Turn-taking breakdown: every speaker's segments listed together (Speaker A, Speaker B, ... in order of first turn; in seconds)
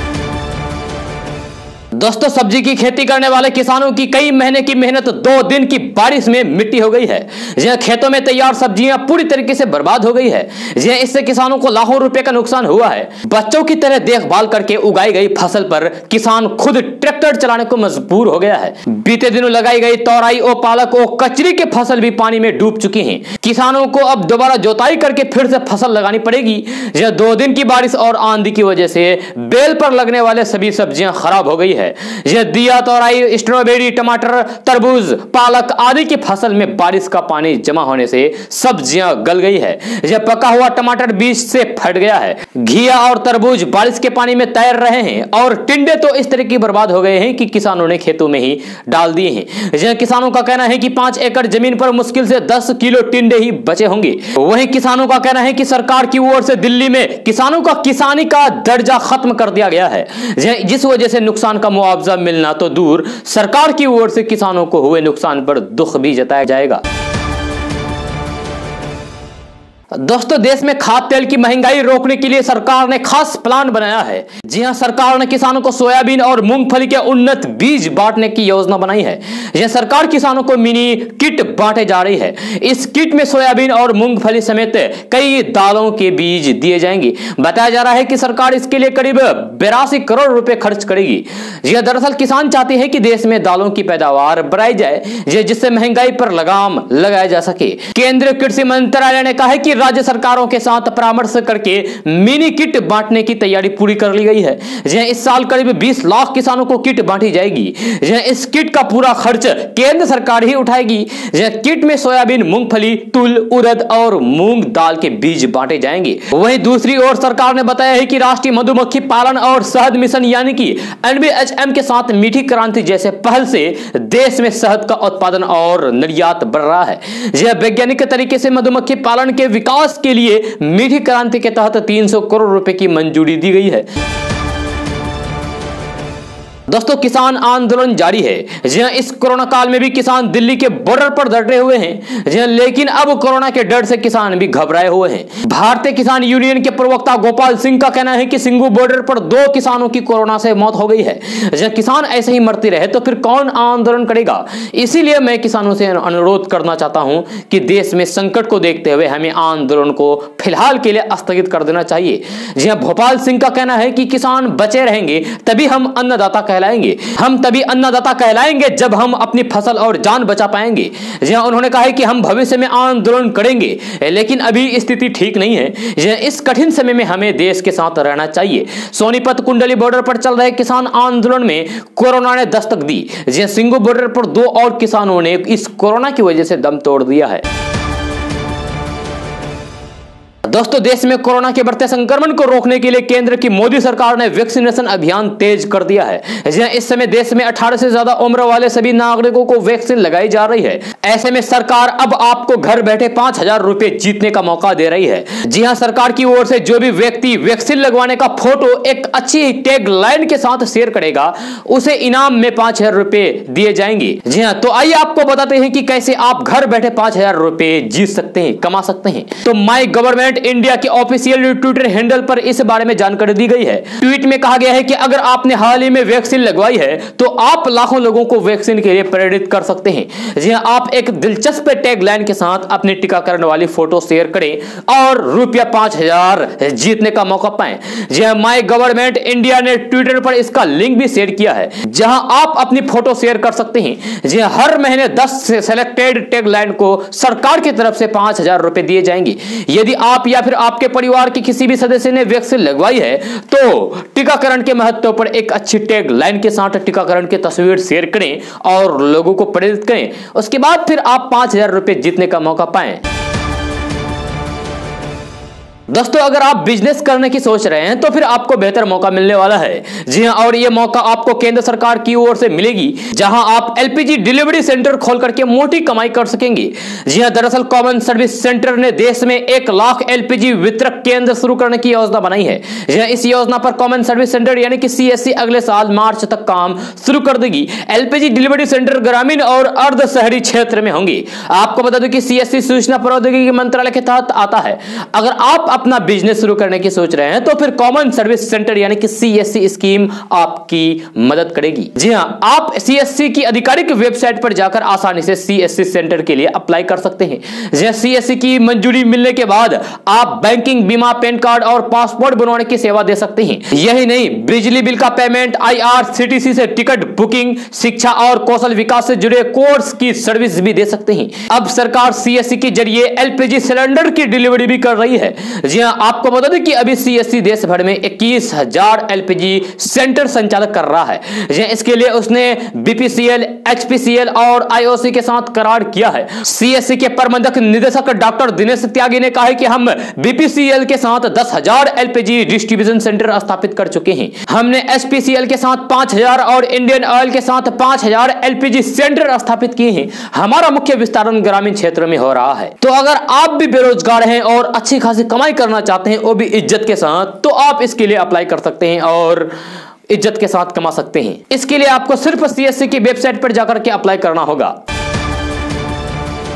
Speaker A: 1.9-66.8, 69.9-133.9, 136.7-187.4, 190.4-263.0, 265.9-359.5, 360.1-364.8